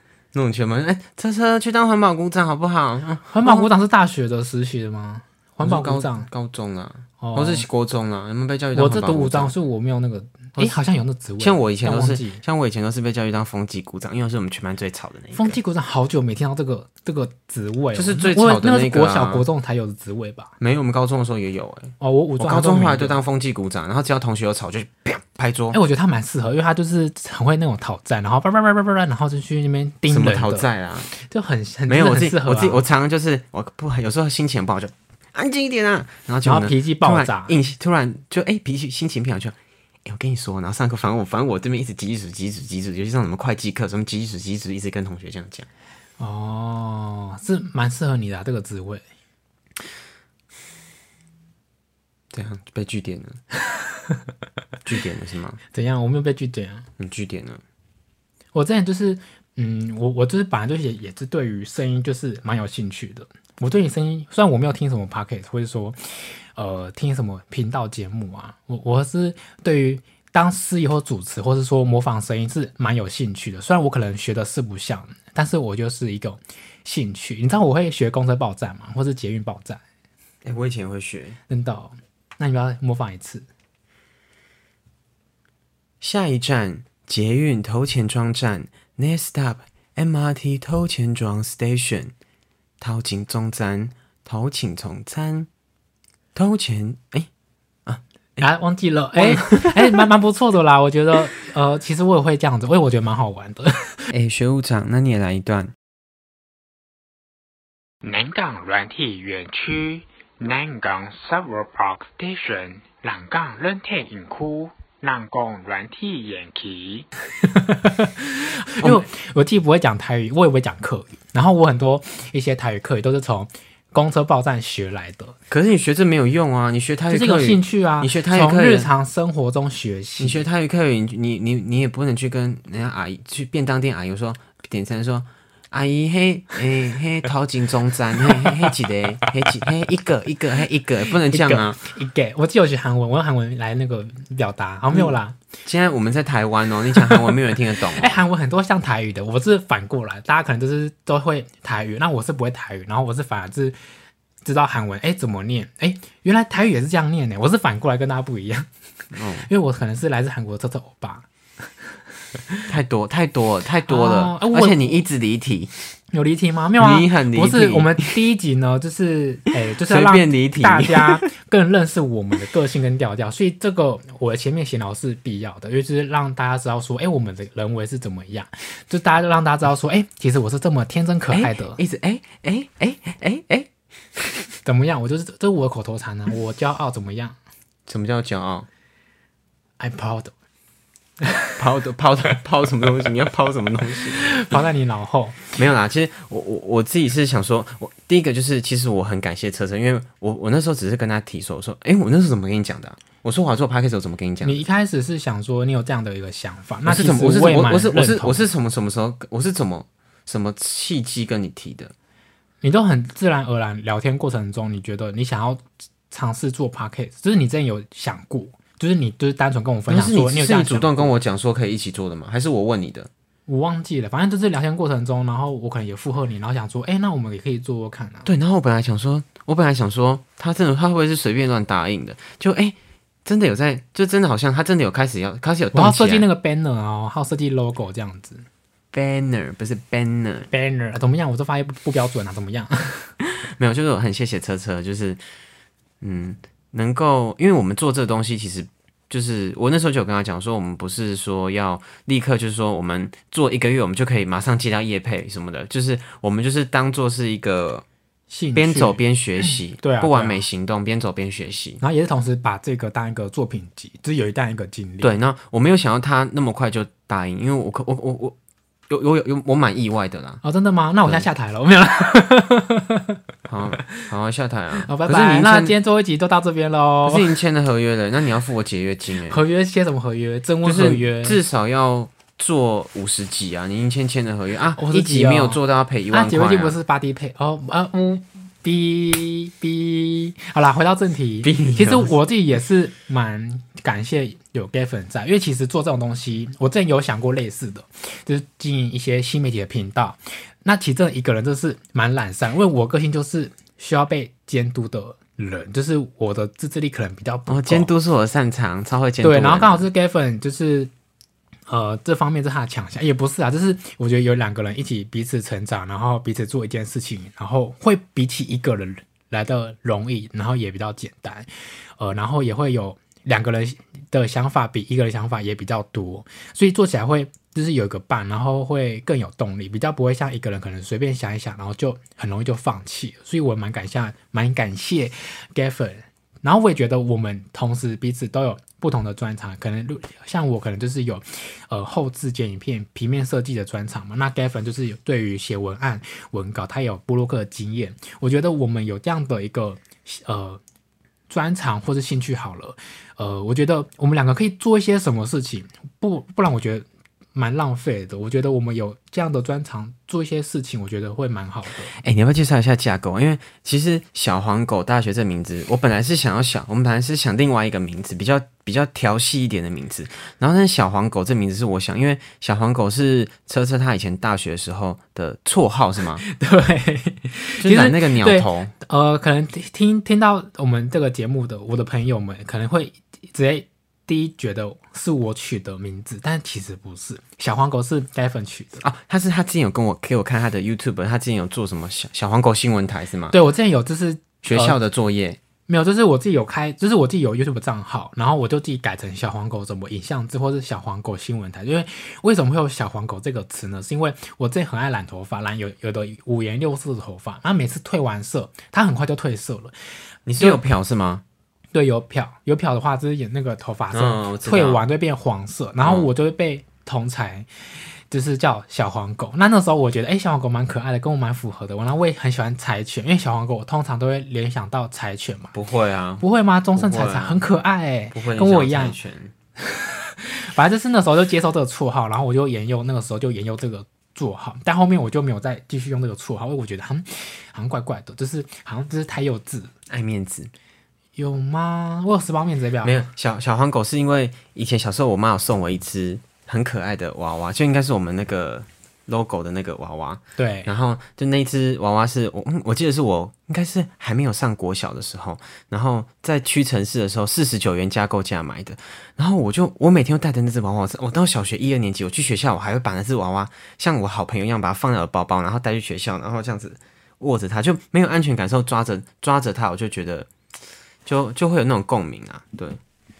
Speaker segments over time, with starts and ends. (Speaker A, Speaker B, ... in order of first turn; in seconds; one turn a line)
Speaker A: 0.3-3.7
Speaker B: 3.3-6.3
Speaker A: 5.6-9.5
Speaker B: 7.2-7.7
Speaker B: 8.7-12.4
Speaker A: 11.4-15.6
Speaker B: 15.3-20.5
Speaker A: 17.9-19.4
Speaker A: 20.6-25.8
Speaker B: 22.0-23.2
Speaker B: 25.7-32.8
Speaker A: 30.1-31.1
Speaker A: 31.9-45.7
Speaker B: 36.4-37.5
Speaker B: 46.2-49.0
Speaker A: 52.3-53.4
Speaker B: 53.7-54.2
Speaker A: 54.8-55.6
Speaker B: 55.7-56.9
Speaker A: 57.0-57.6
Speaker B: 58.5-79.8
Speaker A: 80.4-81.4
Speaker B: 81.5-83.5
Speaker A: 86.0-92.1
Speaker A: 92.8-95.5
Speaker A: 96.3-97.3
Speaker A: 97.8-98.4
Speaker B: 98.4-104.0
Speaker A: 99.2-100.0
Speaker A: 104.1-105.7
Speaker C: 108.0-117.0
Speaker B: 117.4-125.4
Speaker A: 125.5-128.9
Speaker B: 127.1-130.4
Speaker A: 130.2-141.8
Speaker B: 141.2-145.4
Speaker A: 144.9-148.2
Speaker B: 147.9-153.8
Speaker B: 154.4-158.7
Speaker A: 159.1-159.5
Speaker B: 159.3-161.2
Speaker A: 162.7-165.7
Speaker B: 163.9-165.0
Speaker B: 166.1-181.8
Speaker A: 166.8-168.1
Speaker A: 169.8-171.3
Speaker A: 181.3-184.4
Speaker B: 184.6-187.4
Speaker A: 187.9-188.7
Speaker B: 189.8-190.3
Speaker B: 191.2-191.6
Speaker A: 191.6-194.6
Speaker B: 194.2-195.5
Speaker A: 195.5-204.6
Speaker B: 204.4-208.4
Speaker A: 206.8-211.9
Speaker B: 212.6-221.1
Speaker A: 219.9-223.1
Speaker B: 223.5-228.3
Speaker A: 228.2-236.2
Speaker B: 235.7-238.4
Speaker A: 238.9-240.5
Speaker B: 240.5-243.1
Speaker A: 243.2-245.2
Speaker A: 246.0-257.8
Speaker B: 258.3-260.4
Speaker A: 258.5-261.8
Speaker B: 261.8-265.1
Speaker A: 265.0-268.4
Speaker A: 268.9-270.4
Speaker B: 270.4-273.2
Speaker A: 273.5-275.7
Speaker B: 274.8-277.4
Speaker A: 277.0-279.4
Speaker B: 279.2-281.4
Speaker A: 280.6-286.8
Speaker B: 284.8-307.9
Speaker A: 291.4-292.1
Speaker A: 307.5-309.9
Speaker B: 309.2-310.9
Speaker B: 311.7-350.6
Speaker B: 351.3-361.9
Speaker A: 362.0-376.2
Speaker B: 376.2-388.8
Speaker A: 377.6-378.7
Speaker A: 388.8-393.3
Speaker B: 393.3-394.8
Speaker A: 394.4-395.4
Speaker B: 395.7-409.7
Speaker A: 410.2-411.2
Speaker B: 411.7-417.5
Speaker A: 413.9-414.8
Speaker A: 415.8-416.1
Speaker B: 418.1-425.5
Speaker A: 425.5-426.2
Speaker B: 426.2-428.9
Speaker A: 426.7-427.4
Speaker A: 428.1-429.3
Speaker B: 429.6-439.7
Speaker A: 439.9-440.5
Speaker B: 441.1-443.0
Speaker A: 442.8-470.3
Speaker B: 450.4-450.7
Speaker A: 471.0-472.8